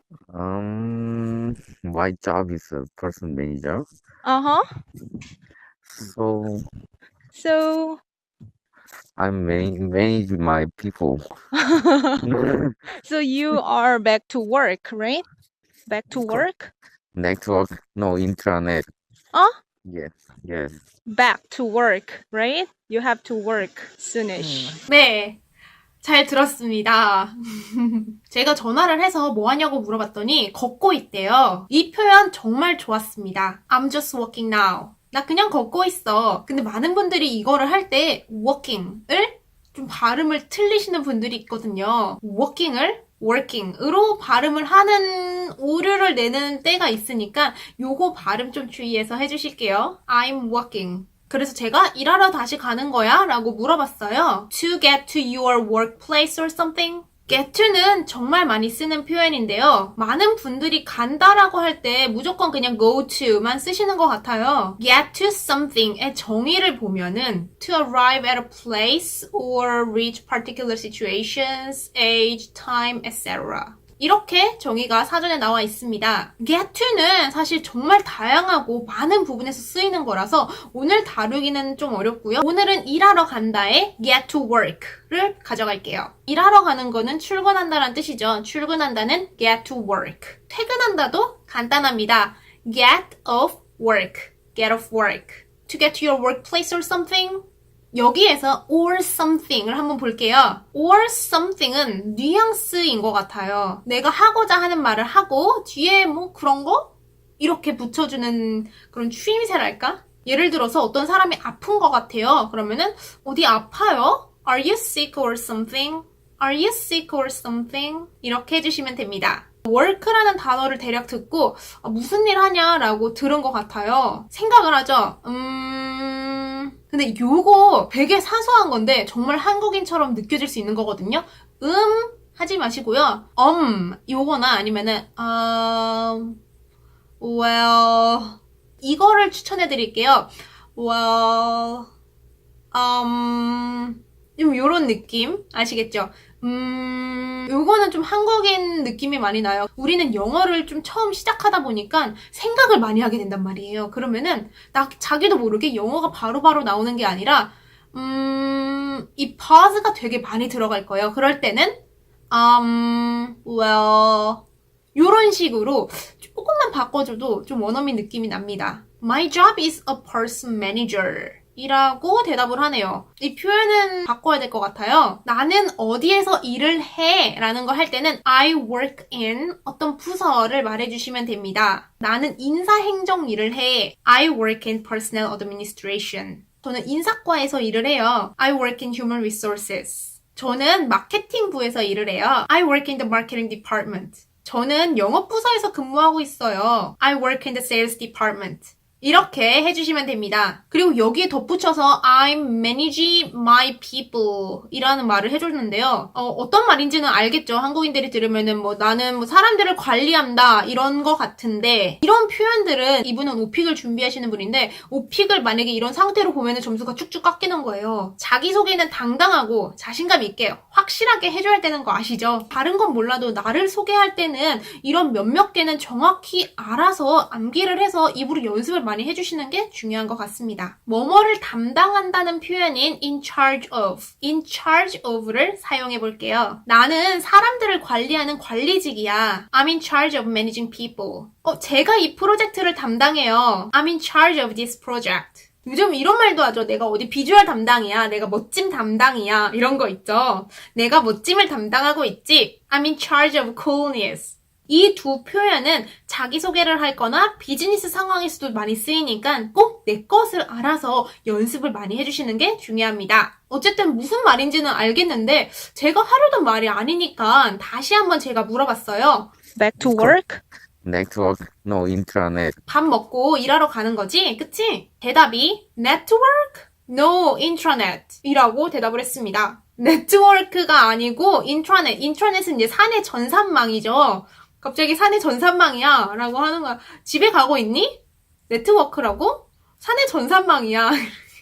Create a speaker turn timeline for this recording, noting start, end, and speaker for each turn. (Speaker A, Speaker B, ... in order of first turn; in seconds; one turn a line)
Speaker A: 0.3-3.9
Speaker B: 4.2-4.6
Speaker A: 5.8-6.7
Speaker B: 7.3-8.0
Speaker A: 9.2-11.2
Speaker B: 11.6-12.2
Speaker A: 12.2-12.8
Speaker B: 12.9-15.3
Speaker B: 15.9-16.7
Speaker A: 16.1-16.5
Speaker A: 17.1-18.9
Speaker A: 19.9-20.7
Speaker B: 21.1-24.8
Speaker C: 24.9-25.4
Speaker C: 26.0-136.4
Speaker C: 137.2-141.9
Speaker C: 142.7-161.8
Speaker C: 162.3-164.4
Speaker C: 164.9-269.3
Speaker B: 269.6-270.4
Speaker A: 269.8-270.2
Speaker A: 270.8-272.6
Speaker C: 272.7-288.0
Speaker C: 288.5-291.2